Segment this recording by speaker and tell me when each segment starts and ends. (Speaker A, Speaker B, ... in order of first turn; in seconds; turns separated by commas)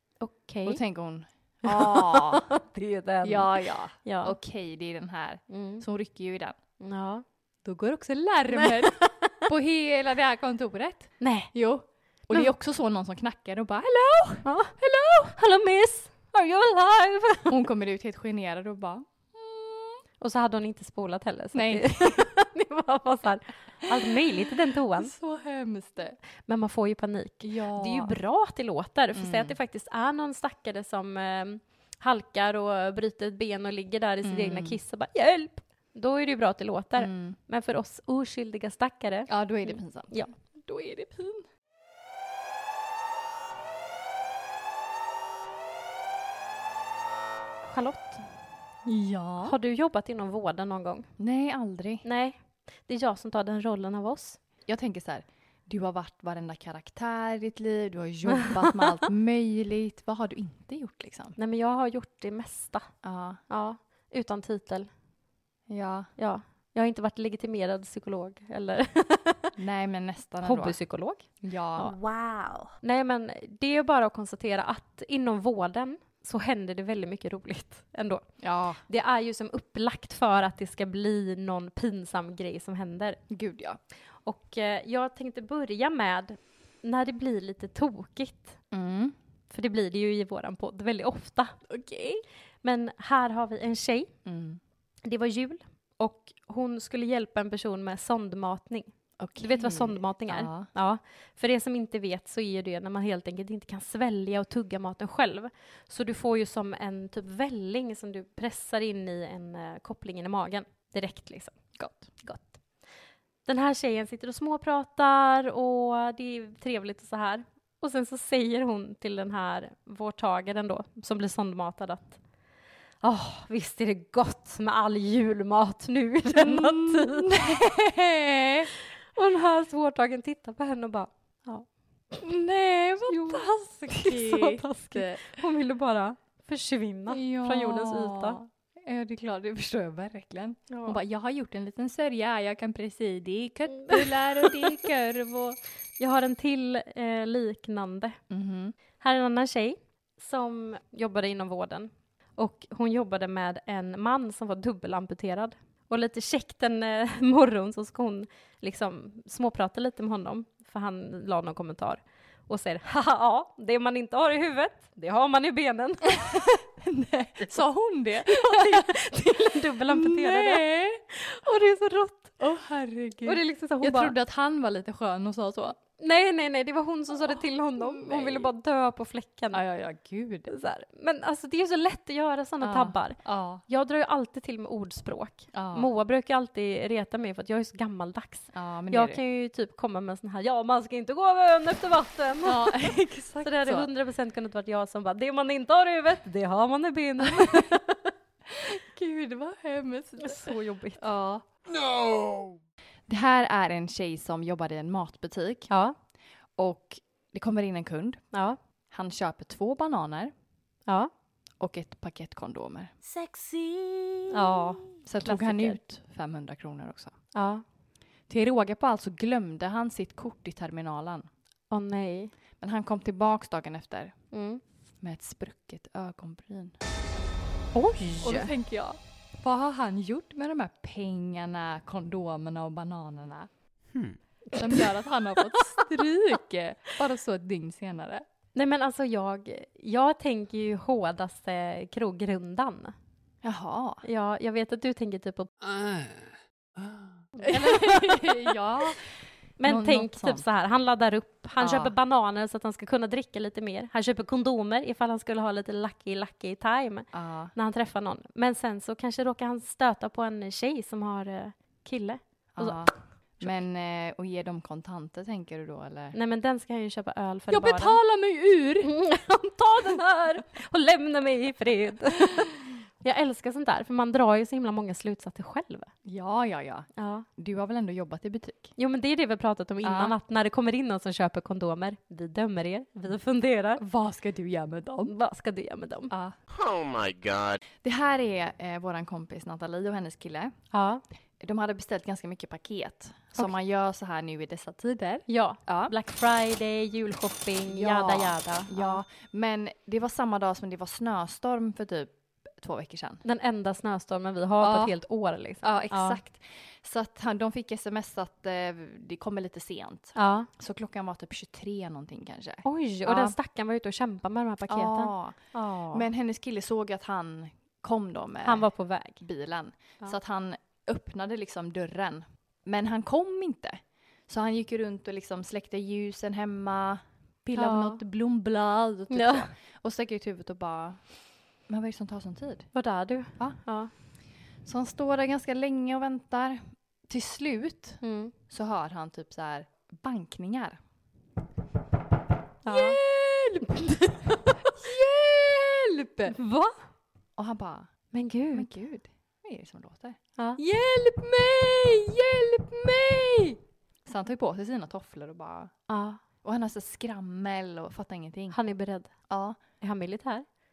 Speaker A: 0.2-0.8, Speaker B: 0.6-2.5, Speaker A: 1.6-4.3, Speaker B: 3.2-6.6, Speaker A: 5.5-5.8, Speaker A: 6.8-7.2, Speaker B: 7.6-15.4, Speaker A: 8.5-9.3, Speaker A: 11.2-11.5, Speaker A: 14.4-14.7, Speaker A: 15.3-17.6, Speaker B: 17.5-20.0, Speaker A: 20.2-25.1, Speaker B: 21.5-22.2, Speaker B: 24.9-26.2, Speaker A: 26.4-40.3, Speaker B: 27.4-28.1, Speaker B: 29.1-29.6, Speaker B: 34.2-34.8, Speaker B: 37.0-37.4, Speaker B: 39.3-41.5, Speaker A: 47.6-48.3, Speaker B: 48.9-49.5, Speaker A: 49.5-51.1, Speaker B: 51.2-52.0, Speaker A: 52.0-54.4, Speaker B: 54.7-61.4, Speaker A: 58.3-59.1, Speaker A: 61.4-62.9, Speaker B: 63.0-63.4, Speaker A: 63.5-64.9, Speaker B: 65.7-66.1, Speaker A: 66.2-69.5, Speaker B: 69.6-70.8, Speaker A: 70.4-71.3, Speaker B: 71.4-72.0, Speaker A: 71.8-78.2, Speaker B: 78.4-78.8, Speaker A: 78.8-83.2, Speaker B: 83.3-83.8, Speaker A: 84.2-88.6, Speaker B: 88.7-89.1, Speaker A: 89.5-91.6, Speaker B: 91.7-92.2, Speaker A: 92.6-94.1, Speaker B: 94.2-94.6, Speaker A: 95.0-111.5, Speaker B: 99.2-100.7, Speaker B: 111.8-112.1, Speaker A: 112.2-112.6, Speaker A: 113.5-122.2, Speaker A: 123.0-127.6, Speaker B: 126.3-128.7, Speaker A: 129.1-131.7, Speaker B: 132.2-135.4, Speaker A: 133.1-138.4, Speaker B: 137.1-145.6, Speaker A: 140.7-141.0, Speaker A: 143.7-144.9, Speaker A: 146.0-148.2, Speaker B: 148.3-148.8, Speaker A: 149.0-166.5, Speaker B: 166.1-169.0, Speaker A: 168.2-172.4, Speaker B: 169.9-171.0, Speaker B: 172.4-175.8, Speaker A: 173.2-174.2, Speaker A: 176.0-179.6, Speaker B: 177.8-178.5, Speaker B: 179.5-180.5, Speaker A: 180.5-198.1, Speaker B: 182.6-183.6, Speaker B: 185.5-185.9, Speaker B: 188.5-189.2, Speaker B: 192.4-193.9, Speaker B: 197.2-197.7, Speaker B: 198.5-201.4, Speaker A: 200.2-201.0, Speaker C: 201.7-202.6, Speaker B: 203.1-205.7, Speaker A: 205.7-205.9, Speaker B: 206.6-208.2, Speaker A: 208.3-208.6, Speaker B: 208.9-210.3, Speaker B: 211.6-212.9, Speaker A: 214.3-215.8, Speaker B: 215.0-217.2, Speaker A: 217.3-217.6, Speaker B: 218.3-221.3, Speaker A: 221.7-222.3, Speaker B: 222.6-224.2, Speaker A: 224.3-224.6, Speaker B: 225.0-226.8, Speaker A: 227.7-228.5, Speaker B: 228.2-233.5, Speaker B: 234.5-238.2, Speaker A: 234.5-234.9, Speaker A: 235.8-236.0, Speaker A: 238.6-242.9, Speaker B: 243.4-244.0, Speaker A: 244.0-245.5, Speaker A: 247.4-248.6, Speaker B: 247.4-250.4, Speaker A: 249.6-262.9, Speaker B: 251.6-251.9, Speaker B: 257.1-257.5, Speaker B: 262.6-266.2, Speaker A: 266.1-268.0, Speaker B: 267.5-268.9, Speaker A: 268.8-275.9, Speaker B: 276.1-278.8, Speaker A: 277.0-277.3, Speaker A: 278.8-283.8, Speaker B: 279.8-280.1, Speaker B: 283.8-285.1, Speaker A: 285.1-286.1, Speaker B: 286.1-286.4, Speaker C: 286.5-287.6, Speaker B: 287.8-290.6, Speaker A: 290.7-291.0, Speaker B: 291.4-295.9, Speaker A: 295.3-299.0, Speaker B: 297.7-303.2, Speaker A: 303.2-306.2, Speaker B: 304.6-304.9, Speaker B: 305.6-313.4, Speaker A: 310.1-310.5, Speaker A: 312.6-316.1, Speaker B: 314.7-315.4, Speaker B: 315.9-331.0, Speaker A: 318.4-319.2, Speaker A: 327.6-328.0, Speaker A: 329.1-329.5, Speaker B: 331.7-332.7, Speaker A: 332.7-333.9, Speaker B: 334.6-340.8, Speaker A: 338.0-338.3, Speaker A: 342.6-343.0, Speaker B: 342.7-344.0, Speaker A: 343.7-344.7, Speaker B: 344.7-346.4, Speaker A: 346.3-346.8, Speaker B: 347.4-347.9, Speaker A: 348.1-348.7, Speaker B: 348.5-355.7, Speaker A: 355.9-356.2, Speaker B: 356.4-358.6, Speaker A: 358.5-359.1, Speaker B: 359.3-359.6, Speaker A: 359.8-360.5